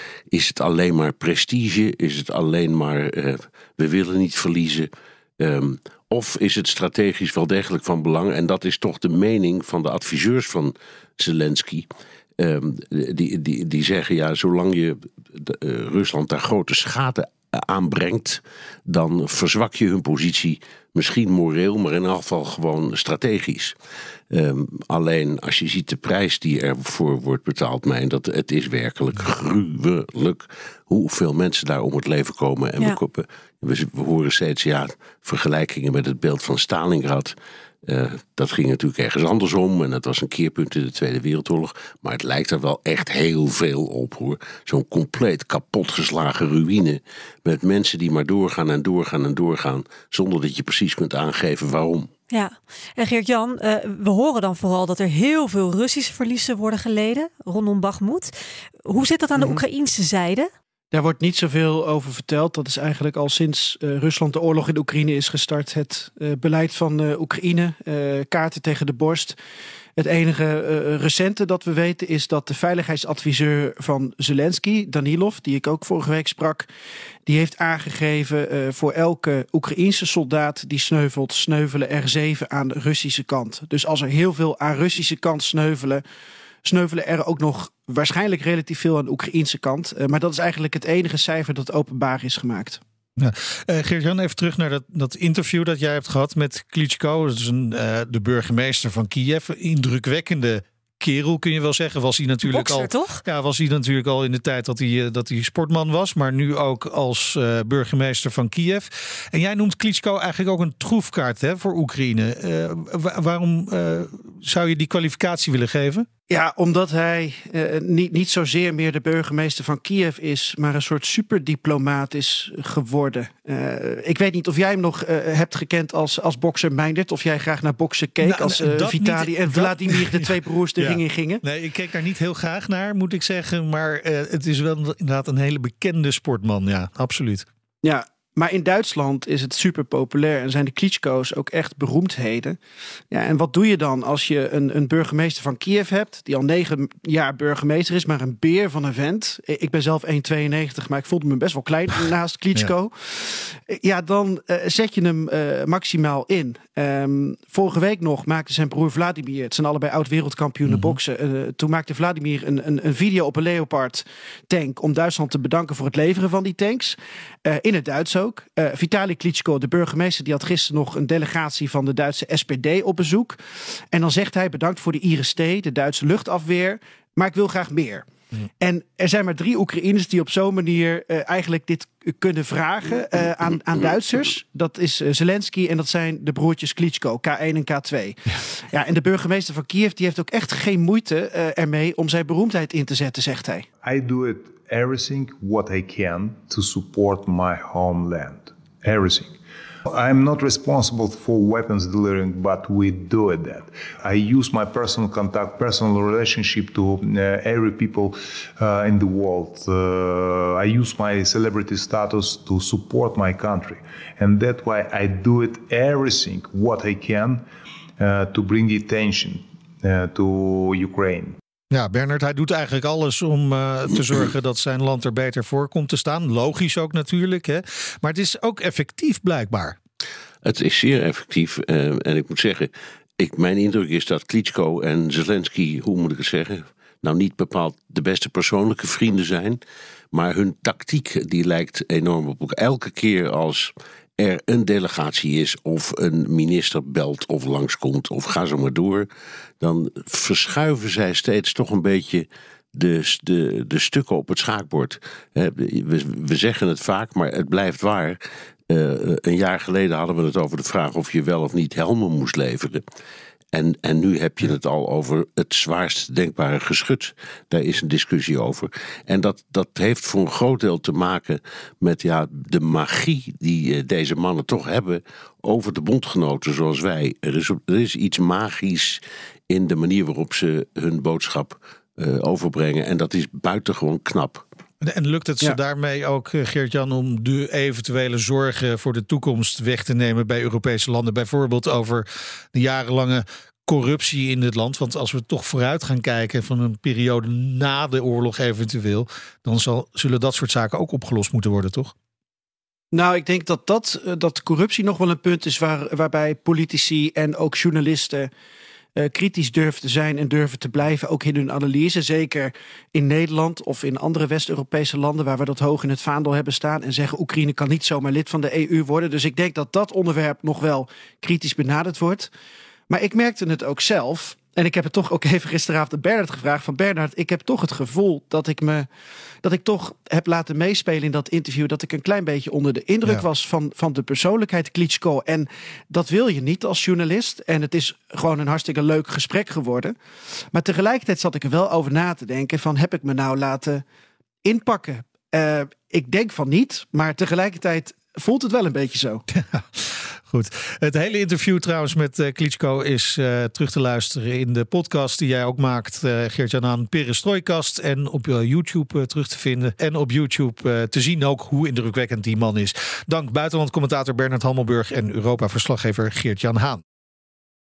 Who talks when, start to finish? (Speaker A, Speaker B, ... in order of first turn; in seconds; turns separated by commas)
Speaker A: 0.3-4.9, Speaker A: 5.4-11.8, Speaker A: 12.4-23.7, Speaker A: 24.3-37.3, Speaker A: 37.9-52.1, Speaker B: 52.3-58.3, Speaker B: 58.8-60.5, Speaker C: 60.9-69.3, Speaker C: 70.0-76.7, Speaker C: 77.2-86.0, Speaker C: 86.6-92.8, Speaker D: 93.2-116.0, Speaker B: 102.4-103.2, Speaker C: 116.3-131.4, Speaker D: 128.2-137.4, Speaker C: 137.8-142.6, Speaker C: 143.1-173.4, Speaker D: 160.7-161.0, Speaker C: 173.9-178.0, Speaker C: 178.6-193.7, Speaker E: 193.8-199.3, Speaker E: 199.9-217.4, Speaker E: 218.0-221.3, Speaker D: 221.7-229.8, Speaker A: 230.4-239.6, Speaker A: 240.1-249.1, Speaker A: 249.6-258.2, Speaker A: 258.7-262.8, Speaker A: 263.5-284.4, Speaker D: 284.8-301.9, Speaker C: 302.9-308.3, Speaker C: 308.9-322.3, Speaker C: 322.9-328.9, Speaker C: 329.4-339.9, Speaker C: 340.5-343.8, Speaker C: 344.4-349.2, Speaker D: 349.3-366.8